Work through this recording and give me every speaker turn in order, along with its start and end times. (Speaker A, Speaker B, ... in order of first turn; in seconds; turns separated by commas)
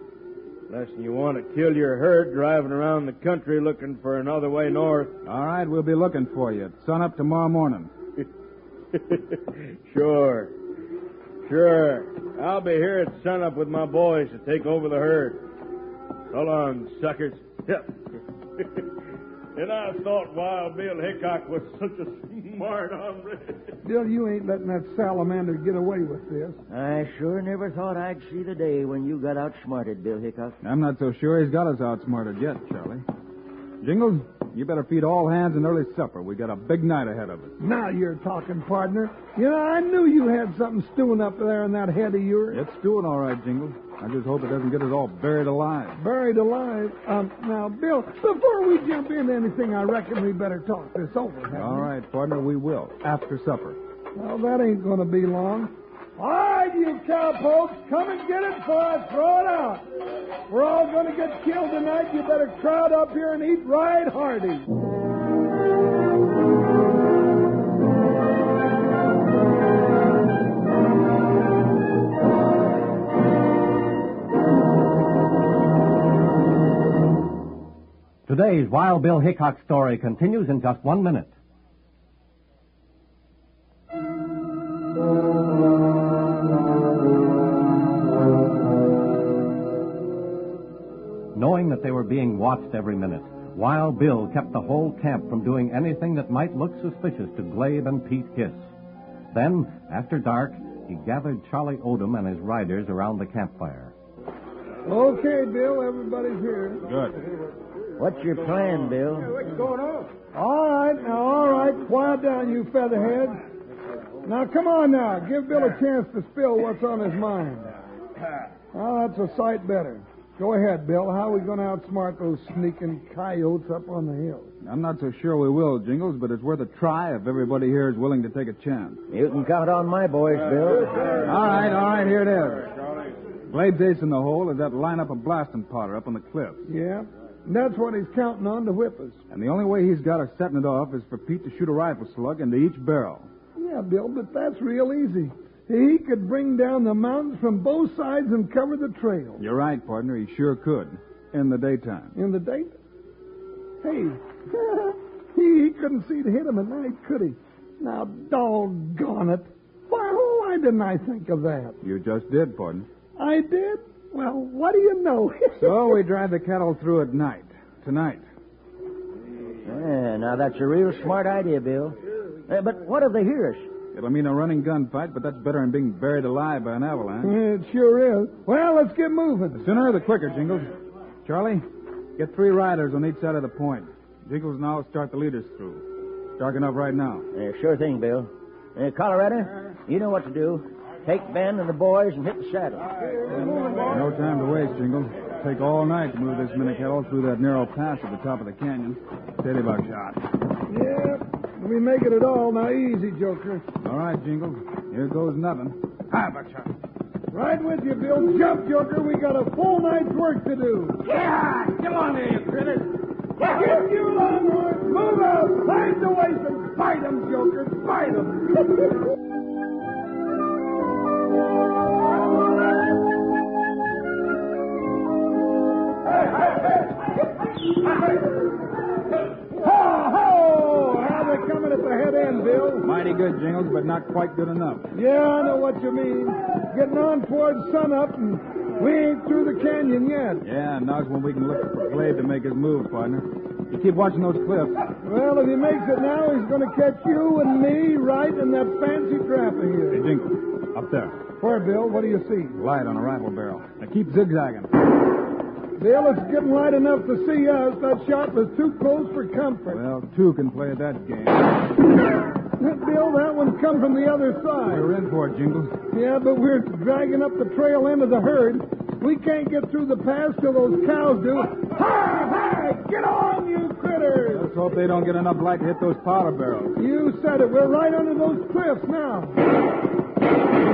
Speaker A: 0.7-5.1, Speaker B: 5.2-7.9, Speaker A: 8.9-10.5, Speaker A: 11.4-15.4, Speaker A: 16.3-18.9, Speaker A: 19.6-23.8, Speaker C: 23.9-26.6, Speaker D: 26.7-30.6, Speaker B: 30.6-33.0, Speaker B: 33.8-37.5, Speaker C: 37.6-42.6, Speaker B: 42.5-46.0, Speaker C: 46.0-51.9, Speaker B: 51.5-53.8, Speaker C: 54.2-59.9, Speaker C: 60.5-64.7, Speaker E: 78.3-81.3, Speaker E: 91.3-98.7, Speaker E: 99.3-103.9, Speaker C: 104.8-106.8, Speaker B: 106.9-107.2, Speaker D: 108.0-109.4, Speaker C: 110.3-113.4, Speaker C: 114.2-117.8, Speaker C: 118.7-124.5, Speaker B: 124.6-129.0, Speaker D: 129.1-131.3, Speaker A: 130.7-133.1, Speaker B: 131.2-132.7, Speaker B: 133.5-136.7, Speaker C: 136.7-139.2, Speaker B: 139.3-143.3, Speaker C: 143.6-149.4, Speaker B: 149.4-152.1, Speaker C: 152.2-152.8, Speaker C: 153.8-161.8, Speaker B: 161.8-162.9, Speaker C: 163.2-166.0, Speaker B: 165.6-168.2, Speaker D: 169.6-173.7, Speaker B: 173.9-177.3, Speaker C: 177.2-179.6, Speaker B: 179.6-180.7, Speaker B: 181.2-181.7, Speaker B: 182.2-185.8, Speaker B: 186.4-187.3, Speaker D: 187.3-192.8, Speaker C: 193.3-193.8, Speaker B: 193.8-200.2, Speaker C: 200.7-203.6, Speaker B: 203.8-206.7, Speaker C: 207.3-211.1, Speaker D: 211.3-212.8, Speaker C: 213.4-218.7, Speaker C: 229.5-232.9, Speaker B: 232.8-234.9, Speaker C: 234.9-240.4, Speaker B: 240.4-244.9, Speaker C: 245.0-250.1, Speaker B: 249.9-251.2, Speaker C: 251.4-252.6, Speaker B: 252.6-254.7, Speaker C: 255.8-259.8, Speaker B: 259.7-261.5, Speaker C: 262.5-264.9, Speaker B: 264.7-265.8, Speaker C: 265.9-274.5, Speaker B: 274.3-276.8, Speaker C: 276.8-279.4